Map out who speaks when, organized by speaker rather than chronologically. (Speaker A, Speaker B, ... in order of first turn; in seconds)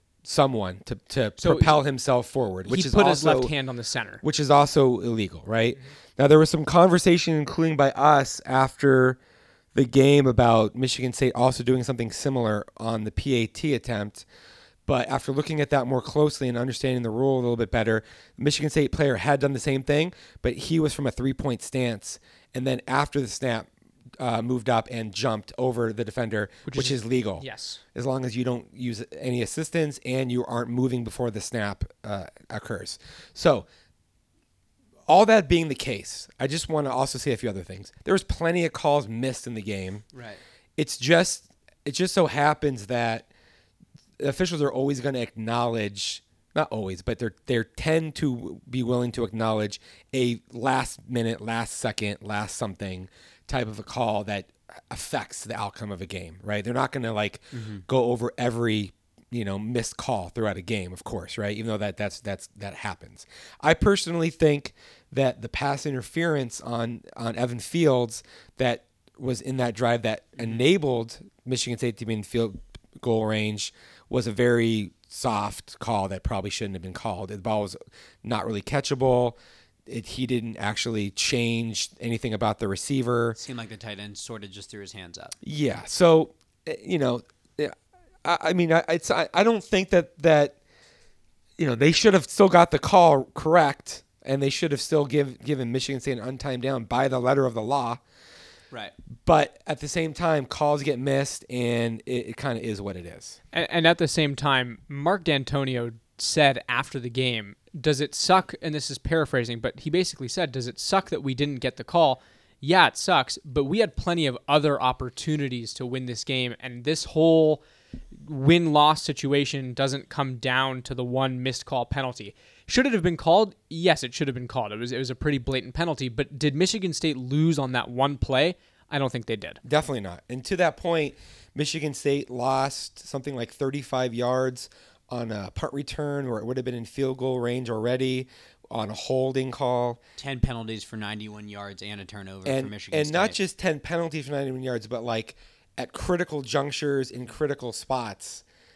Speaker A: 0.2-3.5, 4.2-9.2, 9.7-14.2, 14.8-33.6, 35.1-40.0, 40.8-43.3, 44.2-83.4, 85.4-90.6, 91.6-98.0, 99.2-103.4, 129.6-140.0, 142.4-148.4
Speaker B: 1.4-1.8, 2.6-4.2, 26.7-27.8, 103.5-117.6, 118.2-129.6
Speaker C: 40.1-40.4, 57.5-57.8, 83.3-85.3, 140.2-143.3